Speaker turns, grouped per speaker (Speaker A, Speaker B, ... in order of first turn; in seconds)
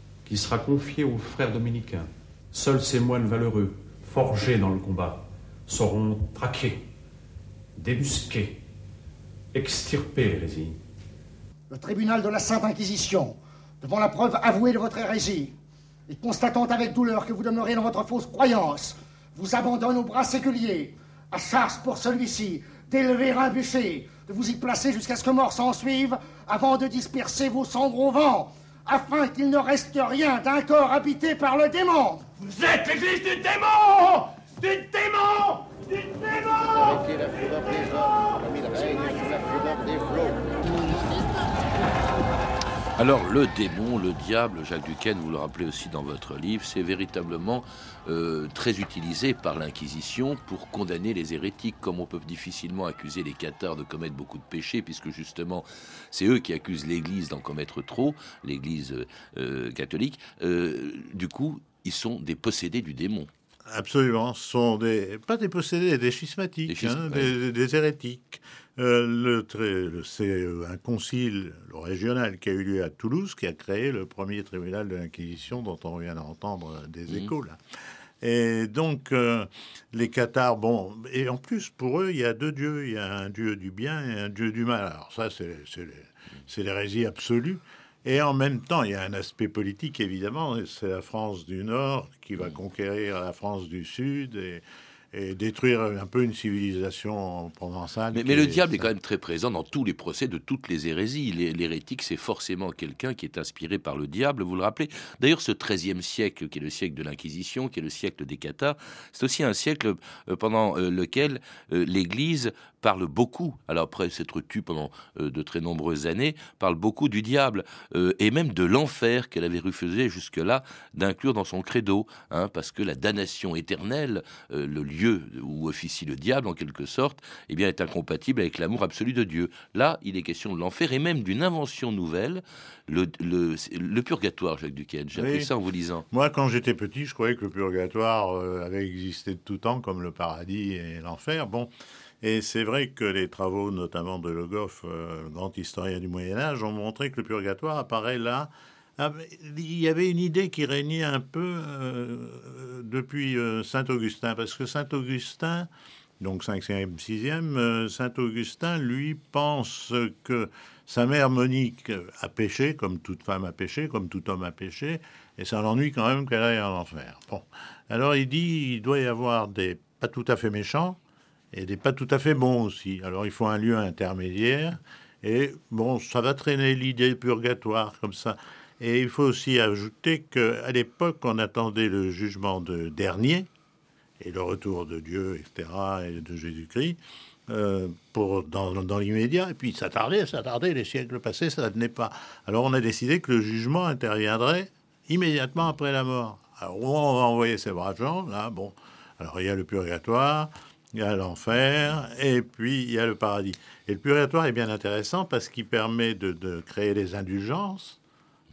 Speaker A: 0.2-6.8, 7.8-8.6, 9.5-10.8
Speaker B: 11.7-15.5, 16.1-32.2
Speaker C: 32.5-34.2, 34.9-36.8
Speaker D: 43.0-63.3, 66.7-67.3, 98.1-136.0
Speaker E: 63.7-77.6, 78.2-98.8, 135.1-135.5, 136.1-155.7, 156.2-171.0, 171.5-183.5, 184.2-208.0